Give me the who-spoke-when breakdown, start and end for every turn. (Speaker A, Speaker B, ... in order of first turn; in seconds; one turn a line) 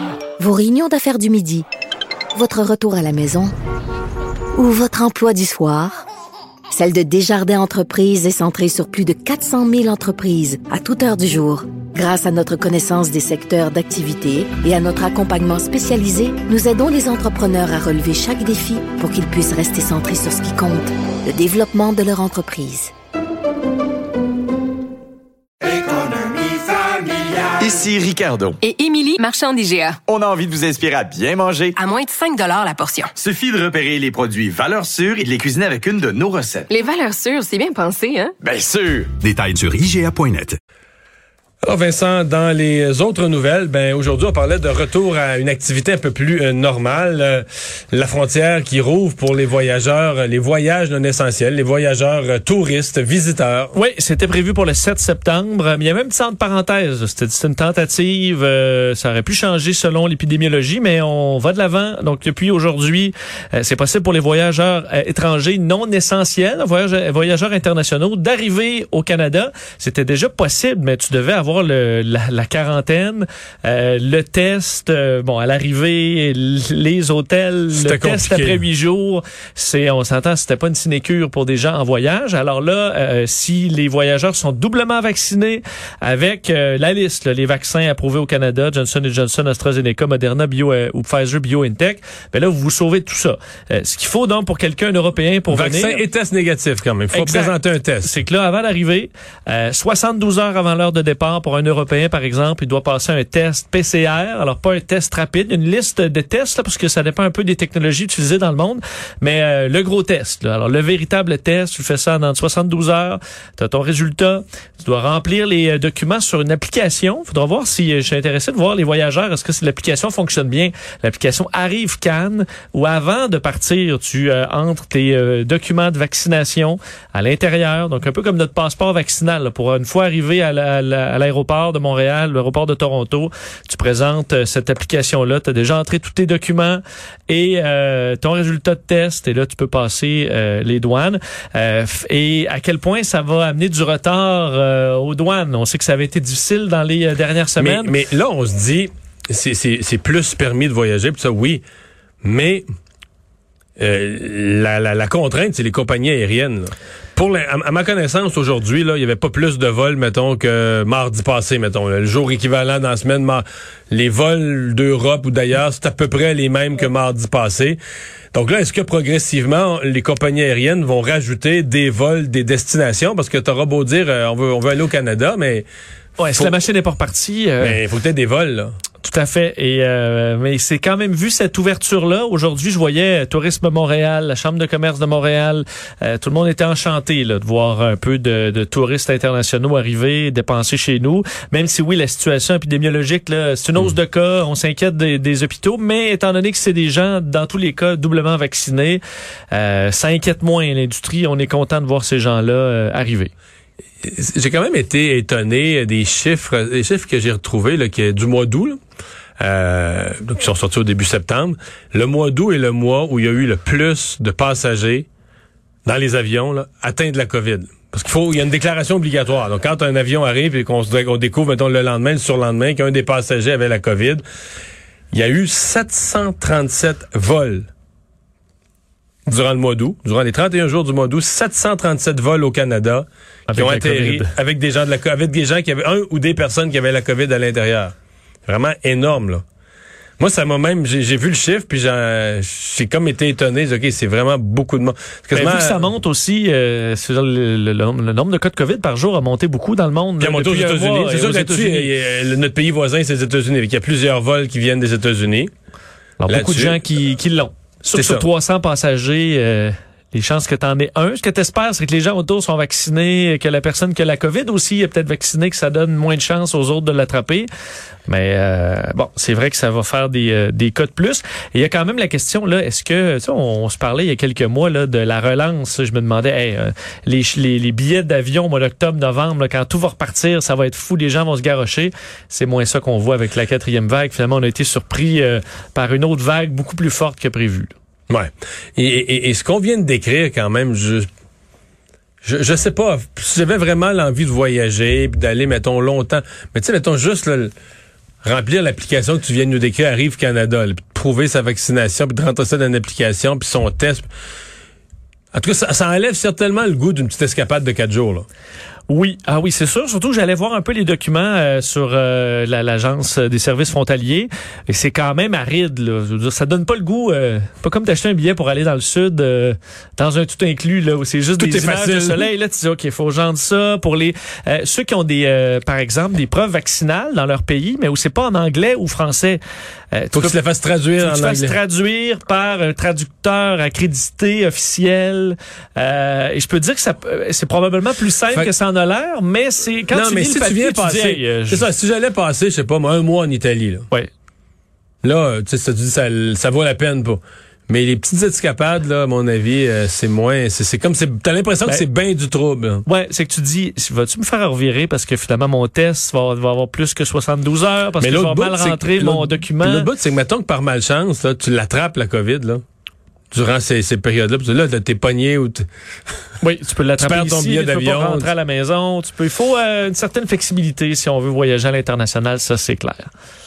Speaker A: 0.4-1.6
Speaker A: 2.3-3.5
Speaker A: 4.5-6.0
Speaker A: 6.7-22.9
Speaker B: 27.2-28.6
Speaker C: 28.6-30.0
Speaker B: 30.1-31.8
Speaker C: 31.8-33.1
Speaker B: 33.2-36.7
Speaker C: 36.7-38.4
Speaker B: 38.4-40.6
Speaker D: 41.6-53.8
Speaker E: 53.7-96.0
Speaker D: 77.7-78.6
Speaker D: 95.5-98.1
Speaker E: 97.1-147.9
Speaker D: 147.6-151.6
Speaker D: 152.2-152.7
Speaker D: 153.8-167.8
Speaker D: 168.3-175.7
Speaker E: 176.2-177.8
Speaker D: 176.2-176.6
Speaker D: 177.6-178.7
Speaker E: 179.0-199.0
Speaker E: 199.5-203.3
Speaker D: 204.0-208.8
Speaker D: 209.4-215.1
Speaker D: 215.8-224.2
Speaker D: 225.1-227.7
Speaker D: 229.3-237.9
Speaker E: 233.5-234.3
Speaker D: 238.5-239.4
Speaker D: 240.2-245.8
Speaker E: 245.3-251.9
Speaker D: 250.2-255.5
Speaker E: 256.2-267.5
Speaker D: 256.3-256.8
Speaker D: 257.9-258.3
Speaker E: 268.1-287.7
Speaker D: 288.1-291.1
Speaker D: 292.2-297.5
Speaker D: 298.2-304.1
Speaker D: 305.3-308.2
Speaker E: 308.9-329.4
Speaker D: 321.4-322.3
Speaker E: 329.9-330.4
Speaker D: 330.1-331.6
Speaker E: 331.0-341.7
Speaker D: 339.9-343.9
Speaker D: 345.0-352.8
Speaker E: 352.8-359.9
Speaker D: 358.0-362.6
Speaker D: 363.3-365.7
Speaker E: 366.4-373.1
Speaker D: 367.0-368.3